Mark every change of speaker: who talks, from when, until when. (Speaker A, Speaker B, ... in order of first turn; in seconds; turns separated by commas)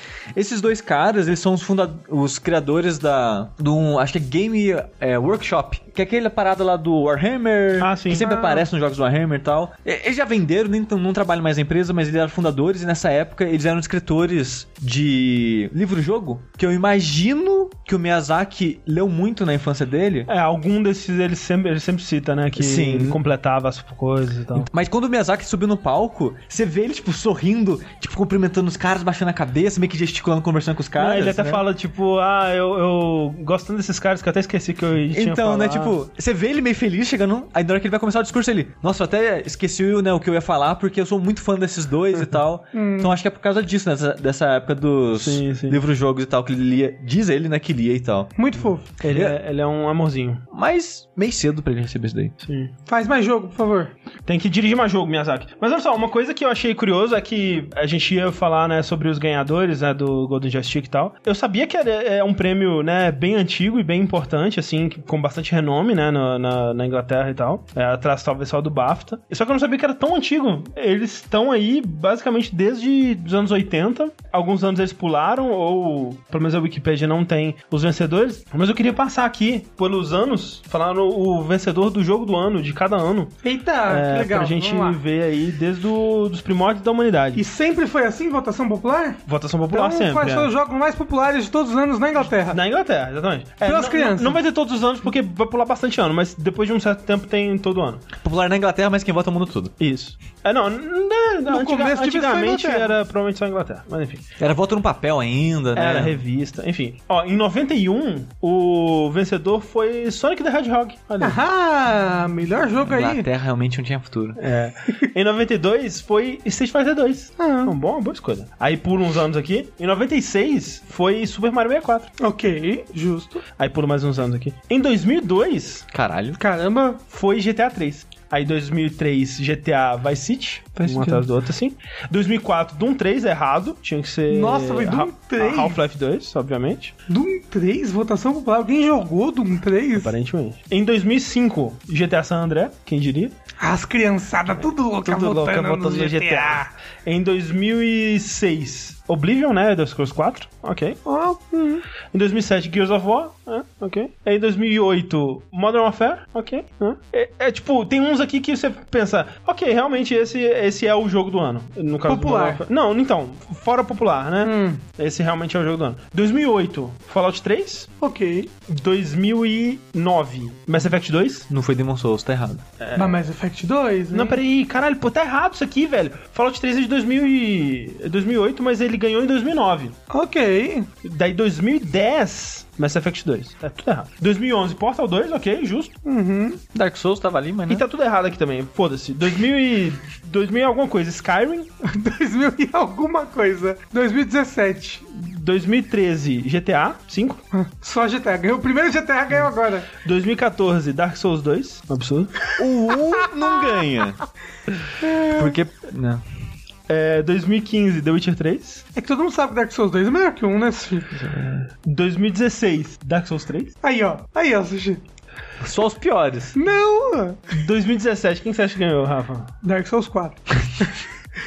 Speaker A: 0.3-20.3, Speaker B: 7.8-8.3, Speaker C: 8.1-8.7, Speaker B: 20.3-24.7, Speaker A: 22.6-23.2, Speaker A: 24.5-31.6, Speaker B: 31.0-36.0, Speaker A: 35.1-48.3, Speaker C: 42.7-43.1, Speaker B: 45.2-45.8, Speaker C: 48.4-48.9, Speaker B: 49.0-50.4, Speaker A: 50.5-52.3, Speaker B: 52.5-52.7, Speaker C: 52.9-53.9, Speaker B: 54.3-83.3, Speaker C: 83.4-85.0, Speaker B: 83.9-87.4, Speaker C: 87.3-92.6, Speaker B: 89.3-90.5, Speaker B: 92.5-98.0, Speaker C: 93.6-94.4, Speaker A: 98.2-99.7, Speaker B: 99.8-104.2, Speaker C: 101.5-102.9, Speaker A: 104.4-106.2, Speaker B: 105.8-111.4, Speaker C: 111.2-113.3, Speaker A: 112.8-114.4, Speaker B: 114.4-122.1, Speaker C: 117.4-117.7, Speaker C: 122.2-123.4, Speaker B: 123.6-125.9, Speaker A: 125.9-126.4, Speaker C: 126.4-127.0, Speaker B: 127.1-136.9, Speaker A: 130.8-131.3, Speaker C: 134.3-135.8, Speaker C: 137.1-140.1, Speaker B: 140.0-143.3, Speaker C: 143.6-146.7, Speaker B: 145.0-151.0, Speaker C: 151.1-151.8, Speaker B: 152.1-167.9, Speaker C: 162.1-162.6, Speaker C: 164.4-164.8, Speaker C: 168.0-168.5, Speaker B: 168.7-171.5, Speaker A: 171.5-172.6, Speaker B: 172.8-173.2, Speaker C: 173.0-174.4, Speaker B: 174.1-180.0, Speaker C: 180.1-180.9, Speaker B: 181.0-185.9, Speaker C: 186.1-186.6, Speaker A: 186.7-187.8, Speaker B: 187.7-191.7, Speaker C: 191.8-195.1, Speaker B: 195.1-197.4, Speaker C: 197.5-199.9, Speaker B: 200.0-202.4, Speaker A: 202.6-204.2, Speaker C: 205.0-205.5, Speaker A: 205.2-206.2, Speaker B: 206.9-208.8, Speaker C: 208.9-211.1, Speaker A: 211.1-211.7, Speaker B: 211.8-213.7, Speaker C: 213.8-215.0, Speaker A: 215.6-216.6, Speaker C: 216.5-217.4, Speaker B: 217.5-219.5, Speaker C: 219.6-220.9